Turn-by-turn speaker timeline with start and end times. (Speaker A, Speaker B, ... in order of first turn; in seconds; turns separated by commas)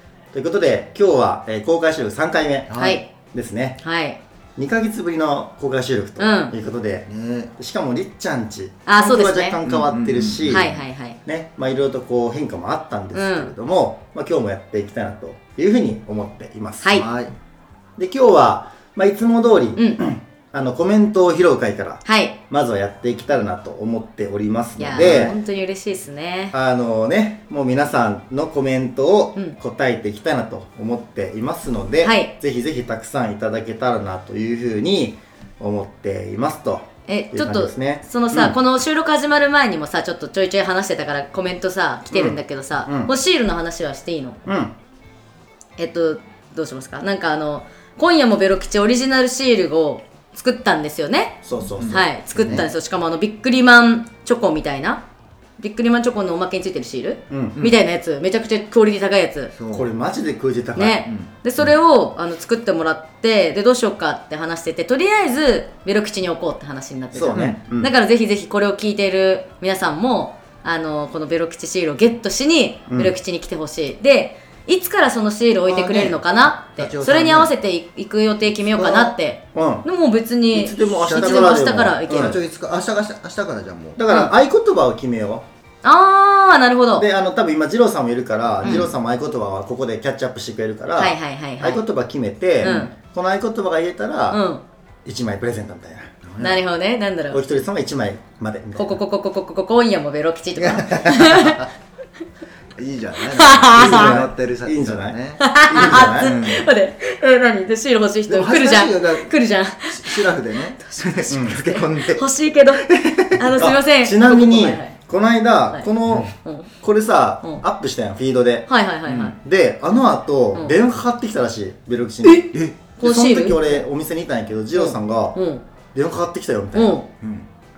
Speaker A: 0.3-3.8, Speaker B: 2.7-3.0, Speaker C: 2.8-3.1, Speaker C: 3.8-4.2, Speaker A: 4.6-17.0, Speaker C: 6.2-6.5, Speaker B: 7.1-7.5, Speaker C: 8.9-9.6, Speaker B: 9.6-10.8, Speaker C: 10.5-11.2, Speaker C: 13.1-13.5, Speaker B: 16.9-17.3, Speaker A: 18.0-25.4, Speaker C: 19.8-20.0, Speaker C: 22.1-22.4, Speaker C: 24.8-26.6, Speaker B: 25.0-25.4, Speaker A: 26.5-38.6, Speaker C: 32.0-32.3, Speaker C: 37.1-44.4, Speaker A: 42.1-43.1, Speaker A: 44.5-44.7, Speaker C: 45.8-55.0, Speaker A: 51.4-52.6, Speaker B: 51.6-52.7, Speaker C: 55.6-59.5, Speaker A: 57.3-57.6, Speaker B: 59.6-59.9, Speaker A: 59.7-61.0, Speaker C: 60.8-82.4, Speaker B: 61.0-61.8, Speaker A: 67.1-67.9, Speaker B: 67.3-67.6, Speaker A: 72.9-73.2, Speaker B: 75.7-77.5, Speaker A: 78.7-79.9, Speaker A: 80.5-82.4, Speaker B: 81.1-84.0, Speaker A: 84.0-85.5, Speaker C: 85.8-87.1, Speaker A: 87.0-94.4, Speaker C: 88.6-88.9, Speaker C: 91.0-91.8, Speaker B: 92.6-92.9, Speaker C: 92.6-92.9, Speaker C: 94.3-94.6, Speaker A: 95.0-96.1, Speaker B: 96.2-96.7, Speaker C: 96.4-97.4, Speaker A: 97.3-99.0, Speaker C: 98.8-101.7, Speaker B: 100.6-101.7, Speaker B: 102.8-106.7, Speaker C: 103.3-104.2, Speaker A: 103.8-106.3, Speaker C: 105.4-115.0, Speaker B: 108.3-109.3, Speaker B: 109.9-113.5, Speaker A: 111.3-111.6, Speaker A: 113.6-118.7, Speaker C: 115.7-116.7, Speaker C: 118.7-119.4, Speaker B: 119.1-119.4, Speaker A: 119.4-125.4, Speaker B: 122.5-123.0, Speaker C: 123.0-123.8, Speaker C: 124.7-125.6, Speaker A: 125.9-127.0, Speaker C: 126.7-127.0, Speaker B: 127.1-127.5